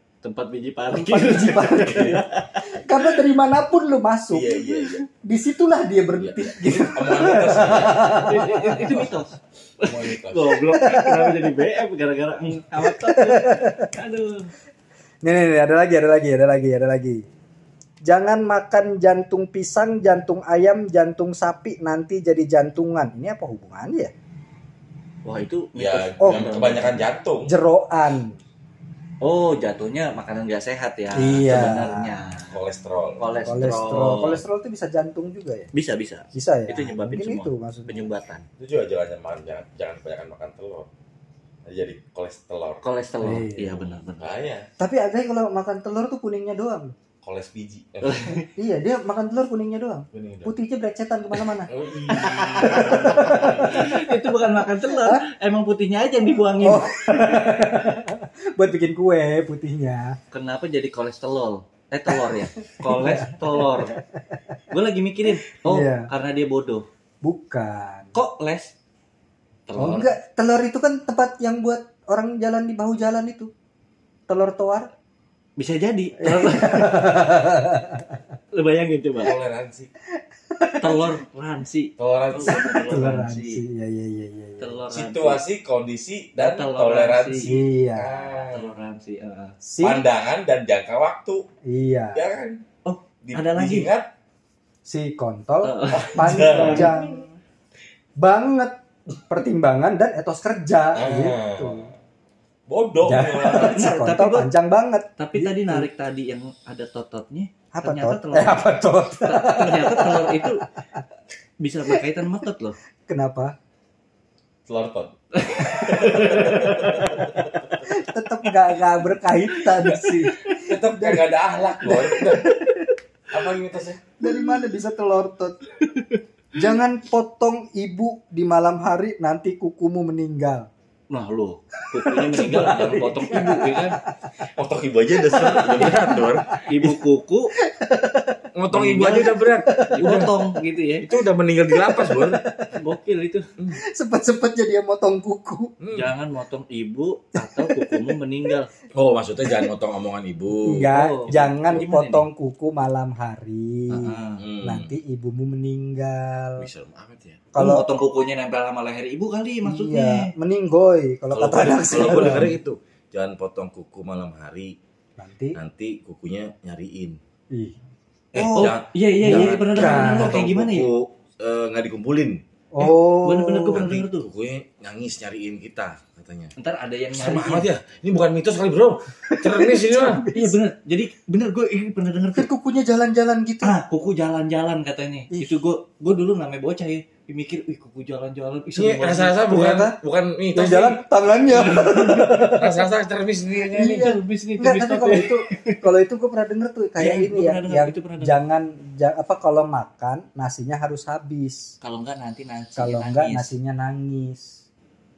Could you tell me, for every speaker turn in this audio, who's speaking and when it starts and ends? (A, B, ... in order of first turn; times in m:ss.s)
0:00.2-0:03.2 A
0:00.9-0:04.6 B
0:04.3-0:05.1 C
0:04.6-0:05.0 A
0:05.2-0:09.0 B
0:06.2-0:09.1 C
0:08.2-0:14.5 A
0:09.8-0:10.6 C
0:10.7-0:11.5 B
0:12.8-0:13.9 B
0:15.2-0:17.3 B
0:18.0-0:24.1 B
0:25.2-0:27.0 A
0:25.8-0:27.5 C
0:26.2-0:26.6 B
0:27.4-0:28.4 B
0:29.2-0:32.6 A
0:31.1-0:32.1 B
0:32.5-0:33.5 C
0:33.2-0:34.4 A
0:33.4-0:35.7 B
0:35.7-0:38.4 A
0:36.3-0:38.2 B
0:38.6-0:40.9 C
0:41.6-0:42.8 C
0:42.8-0:44.2 A
0:43.2-0:43.8 B
0:43.8-0:44.6 C
0:44.8-0:47.0 B
0:47.2-0:48.3 C
0:48.0-0:48.5 A
0:48.6-0:55.2 B
0:50.1-0:50.5 C
0:51.7-0:53.8 C
0:52.1-0:57.0 A
0:56.6-1:00.2 B
1:00.3-1:04.0 A
1:02.1-1:04.5 B
1:04.7-1:06.9 A
1:05.5-1:06.1 B
1:07.2-1:08.1 B
1:08.1-1:08.7 A
1:09.7-1:10.1 A
1:09.8-1:13.5 B
1:14.3-1:14.9 B
1:15.6-1:17.0 A
1:16.2-1:18.2 B
1:18.5-1:19.3 A
1:19.2-1:19.9 C
1:20.5-1:21.0 B
1:20.8-1:23.6 A
1:22.0-1:23.2 C
1:22.4-1:24.7 B
1:24.6-1:25.4 A
1:24.9-1:28.7 C
1:26.4-1:27.5 A
1:27.4-1:28.1 B
1:28.5-1:29.6 A
1:29.6-1:30.0 B
1:29.8-1:31.4 C
1:31.6-1:32.2 B
1:32.1-1:32.6 C
1:32.8-1:33.9 A
1:33.2-1:34.1 C
1:34.8-1:37.3 B
1:35.6-1:36.9 A
1:35.9-1:37.2 C
1:38.2-1:41.9 B
1:40.9-1:41.9 C
1:42.7-1:43.8 C
1:43.0-1:45.9 B
1:43.5-1:44.5 A
1:45.2-1:48.6 A
1:47.7-1:51.0 B
1:49.2-1:50.6 A
1:51.6-1:52.8 A
1:53.1-1:53.5 B
1:54.7-1:57.7 C
1:55.3-1:57.5 A
1:55.6-1:57.3 B
1:57.9-2:02.9 B
1:59.5-2:00.2 A
2:00.5-2:02.5 C
2:03.3-2:04.0 C
2:04.2-2:05.6 B
2:04.3-2:04.5 A
2:05.8-2:06.2 A
2:06.6-2:10.7 B
2:11.1-2:14.0 A
2:11.9-2:14.3 B
2:12.6-2:13.1 C
2:14.4-2:16.6 C
2:15.2-2:17.0 B
2:16.7-2:17.5 A
2:17.6-2:18.4 B
2:18.6-2:20.3 C
2:18.7-2:19.3 A
2:19.1-2:20.4 B
2:19.9-2:21.1 A
2:21.0-2:22.4 C
2:21.7-2:22.7 B
2:22.8-2:23.5 A
2:23.8-2:25.7 B
2:25.8-2:26.1 C
2:25.9-2:28.7 A
2:27.4-2:28.2 B
2:28.9-2:31.8 C
2:30.6-2:36.7 B
2:30.8-2:32.3 A
2:33.9-2:34.4 A
2:34.4-2:34.9 C
2:36.6-2:37.4 C
2:37.5-2:37.9 B
2:37.6-2:40.3 A
2:39.6-2:42.6 B
2:41.3-2:44.8 C
2:42.0-2:42.4 A
2:45.2-2:45.6 B
2:45.6-2:47.2 C
2:47.5-2:47.8 B
2:48.3-2:52.4 C
2:48.3-2:50.9 A
2:49.2-2:50.4 B
2:52.7-2:53.8 B
2:52.8-2:54.3 A
2:53.8-2:56.5 C
2:56.6-2:57.7 A
2:57.1-3:00.2 C
2:59.2-3:00.6 B
3:00.3-3:02.5 A
3:02.3-3:03.8 B
3:03.6-3:09.4 A
3:05.3-3:05.6 B
3:08.8-3:14.1 C
3:09.4-3:10.0 B
3:10.5-3:12.8 B
3:13.7-3:21.7 B
3:13.8-3:15.8 A
3:17.0-3:18.4 A
3:21.8-3:23.5 A
3:22.8-3:24.6 B